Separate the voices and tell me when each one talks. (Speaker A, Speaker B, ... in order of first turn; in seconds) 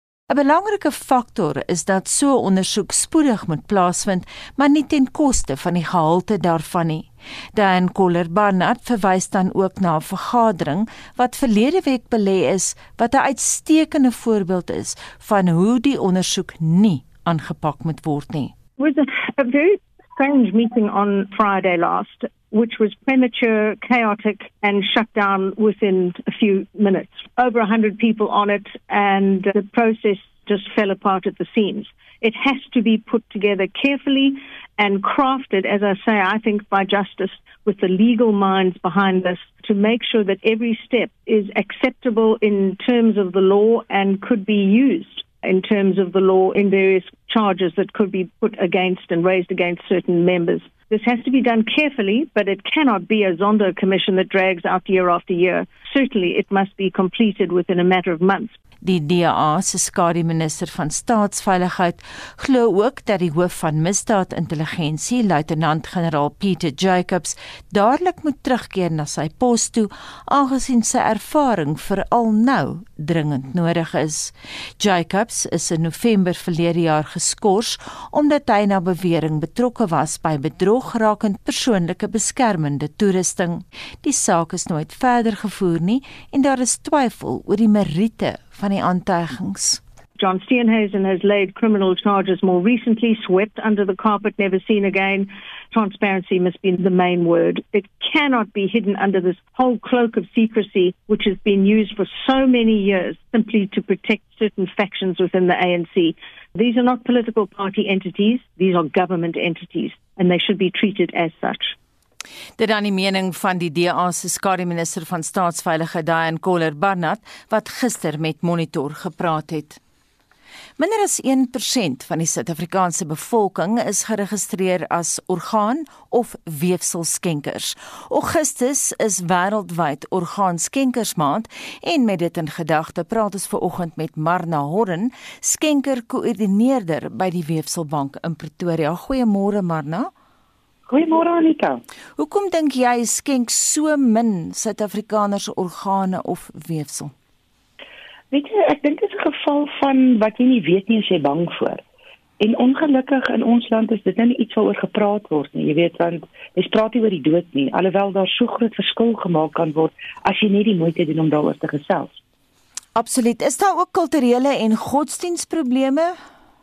Speaker A: 0.3-18.5, 58.8-89.8, 112.6-119.8, 120.8-140.1, 142.2-147.1, 162.9-166.2
Speaker B: 18.8-58.5, 90.2-111.7
Speaker C: 140.9-141.8, 148.3-151.8, 152.4-162.2